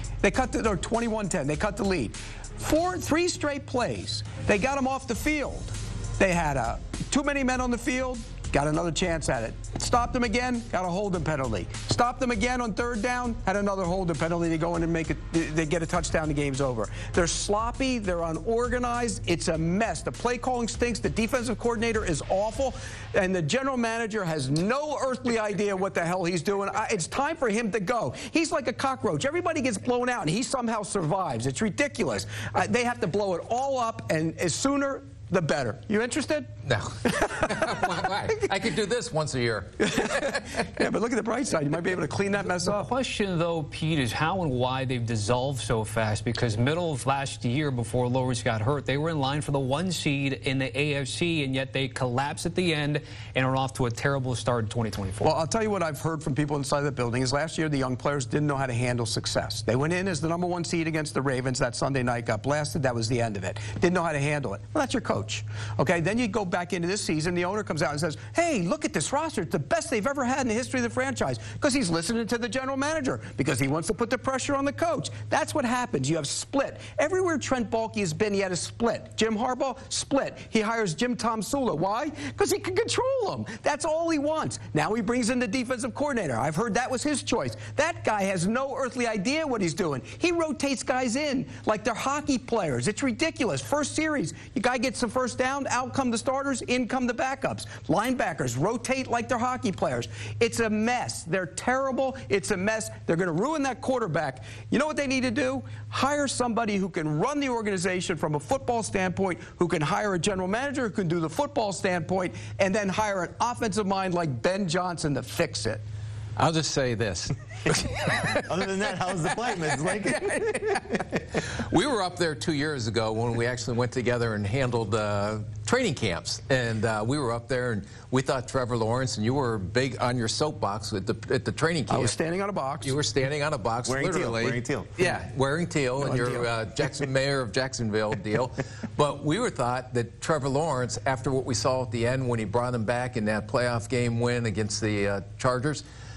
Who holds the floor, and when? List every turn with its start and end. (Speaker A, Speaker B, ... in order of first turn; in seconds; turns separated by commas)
Speaker A: 0.2-36.5, Speaker B: 36.6-40.6, Speaker A: 39.9-42.9, Speaker C: 42.7-55.3, Speaker A: 55.2-115.8, Speaker B: 116.4-118.4, Speaker D: 118.3-120.3, Speaker B: 119.4-132.2, Speaker A: 131.9-132.9, Speaker B: 132.8-145.8, Speaker D: 133.8-134.9, Speaker A: 136.0-136.5